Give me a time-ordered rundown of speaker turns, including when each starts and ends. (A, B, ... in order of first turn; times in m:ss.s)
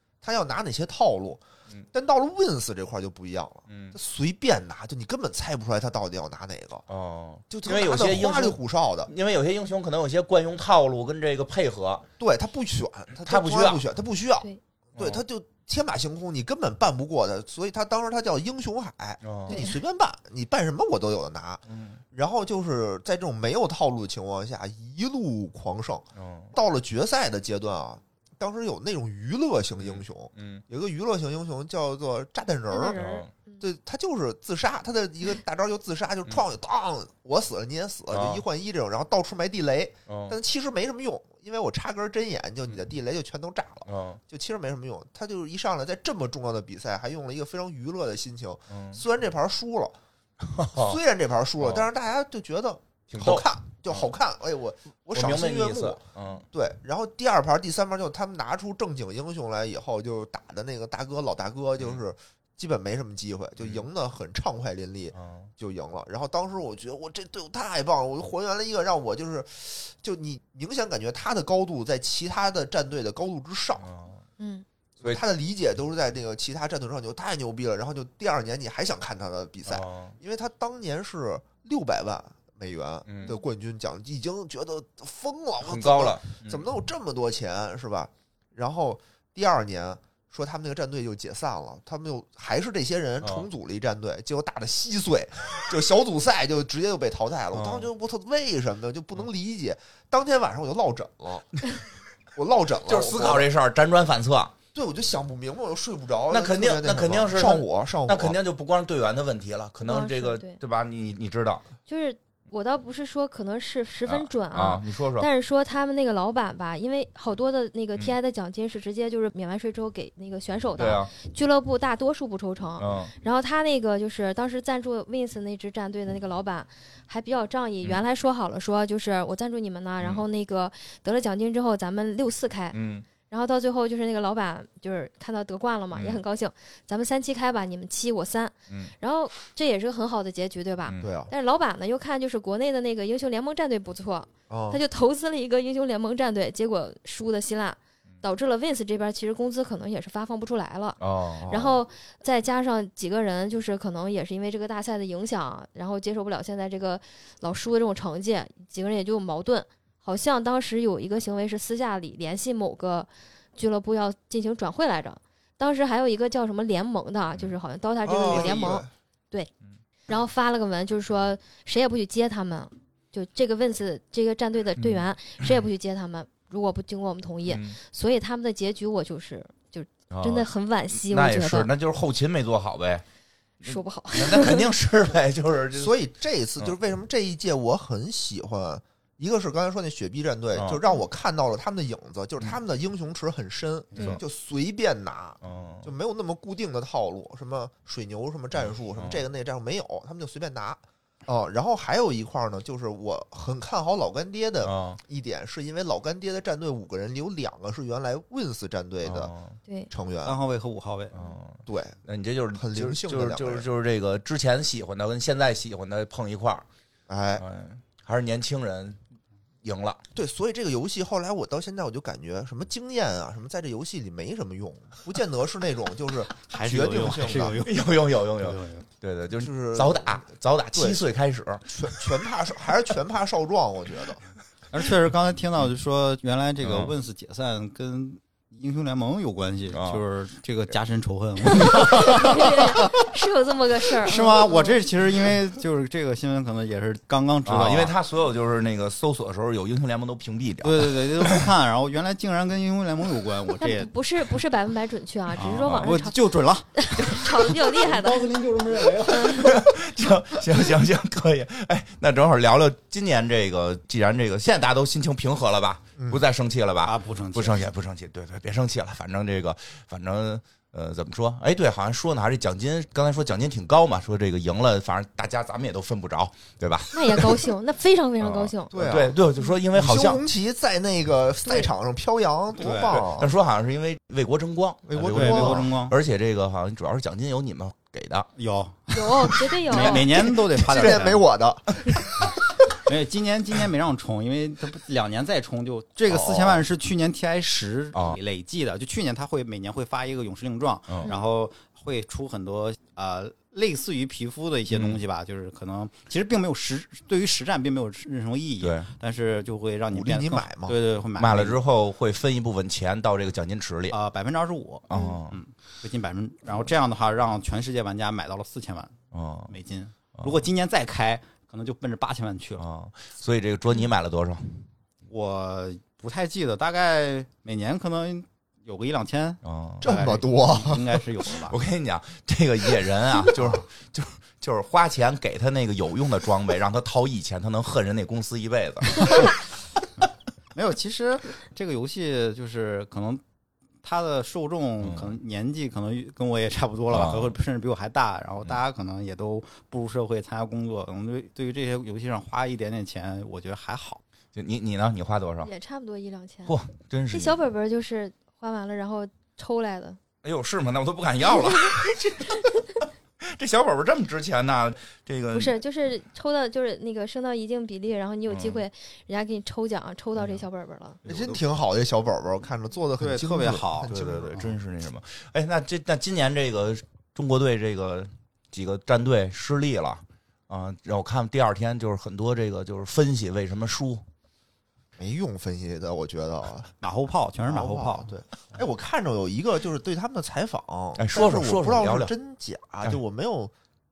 0:00.2-0:01.4 A
0:01.9-0:06.8 A
0:03.7-0:04.0 B
0:06.9-0:12.0 B
0:07.5-0:09.1 A
0:12.2-0:33.0 A
0:13.3-0:13.8 B
0:15.0-0:15.2 B
0:19.2-0:19.6 B
0:19.5-0:19.8 C
0:21.7-0:22.0 B
0:26.2-0:26.5 B
0:29.8-0:30.6 B
0:32.7-0:33.6 C
0:32.9-0:33.3 B
0:33.6-0:49.9 A
0:38.1-0:38.4 B
0:40.1-0:40.4 B
0:43.9-0:44.2 B
0:48.7-0:49.0 B
0:50.4-0:51.0 B
0:50.7-1:13.9 A
0:51.6-0:51.9 B
0:53.1-0:54.1 B
0:55.1-0:56.4 B
1:03.6-1:03.8 B
1:05.1-1:05.5 B
1:13.8-1:14.2 B
1:14.4-1:14.6 C
1:15.0-1:41.6 A
1:19.7-1:20.1 B
1:23.1-1:23.3 B
1:25.6-1:26.6 B
1:37.5-1:37.9 B
1:42.4-1:43.5 A
1:42.9-1:44.5 B
1:44.7-1:48.4 A
1:46.3-1:51.6 B
1:49.8-1:50.6 C
1:51.9-2:49.5 C
1:54.1-1:55.3 B
2:00.8-2:01.1 B
2:02.8-2:03.1 B
2:12.7-2:13.1 B
2:15.9-2:16.2 B
2:21.0-2:21.3 A
2:24.5-2:24.8 A
2:31.0-2:31.5 B
2:31.4-2:31.8 A
2:48.0-2:48.9 A
2:50.1-3:01.7 C
2:54.8-2:55.0 B
2:57.5-2:57.8 B
3:00.1-3:03.0 B
3:03.6-3:05.9 B
3:03.6-3:04.7 C
3:05.8-3:29.3 A
3:10.6-3:10.8 B
3:14.0-3:14.2 B
3:15.4-3:15.9 B
3:18.9-3:19.2 B
3:24.6-3:25.0 B
3:29.0-3:29.6 B
3:29.9-3:30.4 A
3:30.2-3:31.1 D
3:31.1-3:36.6 B
3:31.6-3:32.0 A
3:32.5-3:33.7 A
3:37.1-3:37.4 A
3:37.4-3:39.0 B
3:39.6-3:40.0 B
3:40.1-3:47.6 A
3:46.5-3:48.8 D
3:47.5-3:51.7 B
3:49.3-3:51.0 A
3:51.7-3:54.2 A
3:54.7-4:02.9 D
3:56.6-3:56.9 B
3:59.7-4:00.0 B
4:01.9-4:04.8 C
4:04.0-4:07.9 D
4:07.4-4:11.4 B
4:10.6-4:13.9 D
4:13.6-4:16.1 C
4:15.4-4:19.7 D
4:15.4-4:15.9 B
4:16.8-4:18.3 C
4:19.1-4:19.6 C
4:19.3-4:37.5 B
4:26.0-4:26.2 A
4:26.8-4:27.6 D
4:36.9-4:38.7 C
4:38.2-4:40.2 B
4:38.7-4:43.3 A
4:41.4-4:41.7 C
4:42.6-4:43.1 D
4:42.9-4:48.3 B
4:44.9-4:45.7 A
4:45.0-4:46.0 D
4:48.4-4:51.2 D
4:48.9-4:50.1 C
4:49.9-4:52.3 A
4:52.7-5:11.6 D
4:56.1-4:56.6 B
4:57.9-4:58.2 B
5:04.7-5:05.0 B
5:08.6-5:08.9 B
5:09.9-5:10.8 A
5:11.2-5:14.0 B
5:13.9-5:22.6 D
5:14.9-5:15.4 B
5:14.9-5:15.2 C
5:19.1-5:19.5 B
5:22.6-5:24.6 B
5:25.1-5:31.6 D
5:29.4-5:30.0 B
5:29.8-5:31.0 A
5:31.5-5:39.4 B
5:40.6-5:43.2 D
5:43.8-5:54.0 D
5:44.8-5:45.1 B
5:46.9-5:47.3 B
5:54.4-5:55.5 B
5:55.4-5:56.6 C
5:56.4-5:57.4 B
5:57.1-6:00.0 C
6:00.2-6:05.6 B
6:05.3-6:11.0 C
6:08.3-6:08.6 B
6:11.0-6:11.4 B
6:11.1-6:14.6 A
6:13.0-6:14.5 D
6:13.9-6:24.0 B
6:25.0-6:26.7 A
6:26.8-6:28.1 D
6:27.4-6:33.5 A
6:31.0-6:32.1 B